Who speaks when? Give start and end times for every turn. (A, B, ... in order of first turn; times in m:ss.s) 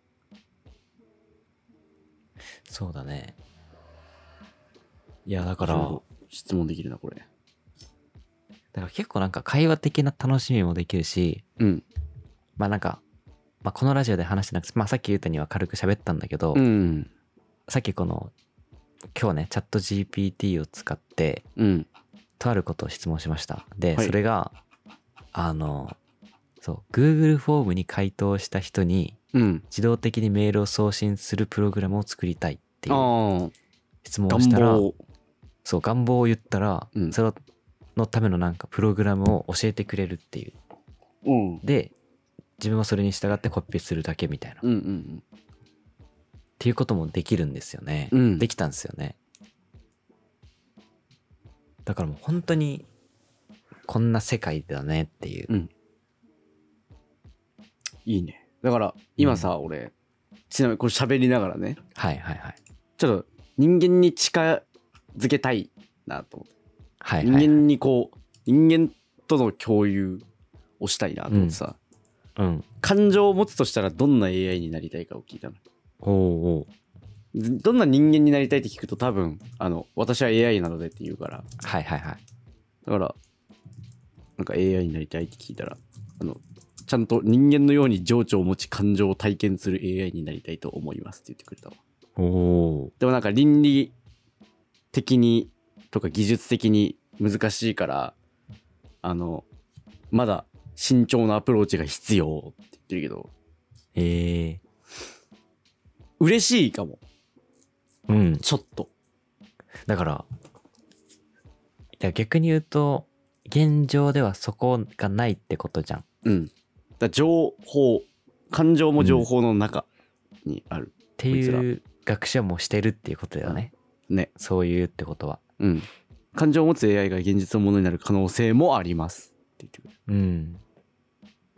0:02.7-0:03.4 A
0:05.3-0:06.0 A
0:05.6-0:07.3 B
0:08.7-0:11.4 A
0:11.6-0:11.8 B
0:12.6-0:13.0 A
0:13.6-0:16.6 A
0:16.6-0:17.1 B
0:17.7-0:18.3 A
0:19.1-0:21.4 A
0:21.6-0:21.9 B
0:22.4-0:24.5 A
0:25.3-0:26.0 A
0:26.6-0:29.2 A
0:29.3-0:29.6 B
0:29.7-0:33.1 A
0:32.9-0:33.5 B
0:34.0-0:34.9 A
0:34.3-0:35.0 B
0:35.6-0:37.4 A
0:38.0-0:40.6 A
0:41.2-0:41.6 B
0:41.6-0:41.9 A
0:42.6-0:44.6 A
0:44.6-0:45.2 B
0:46.6-0:49.2 A
0:48.1-0:48.5 B
0:51.9-0:52.9 A
0:53.9-0:55.5 A
0:58.1-0:59.9 B
0:59.2-0:59.5 A
1:00.5-1:01.8 B
1:02.0-1:02.6 A
1:03.0-1:04.6 B
1:05.2-1:06.5 B
1:07.0-1:07.6 A
1:07.2-1:10.2 B
1:10.8-1:11.8 B
1:11.3-1:11.6 A
1:12.4-1:12.7 A
1:12.8-1:15.6 B
1:16.0-1:16.7 A
1:17.3-1:21.5 B
1:21.6-1:22.2 A
1:22.8-1:23.2 B
1:24.4-1:31.8 B
1:32.2-1:32.9 A
1:33.0-1:33.9 B
1:34.9-1:38.2 B
1:39.0-1:39.5 B
1:40.1-1:43.3 B
1:44.0-1:44.6 A
1:46.2-1:47.0 B
1:48.1-1:48.4 A
1:48.4-1:48.9 B
1:49.9-1:50.3 A
1:52.0-1:56.0 A
1:56.2-1:59.9 B
1:59.0-1:59.3 A
2:00.5-2:01.7 B
2:01.2-2:03.7 A
2:03.4-2:04.3 B
2:04.4-2:05.4 A
2:05.6-2:09.9 B
2:10.1-2:10.6 A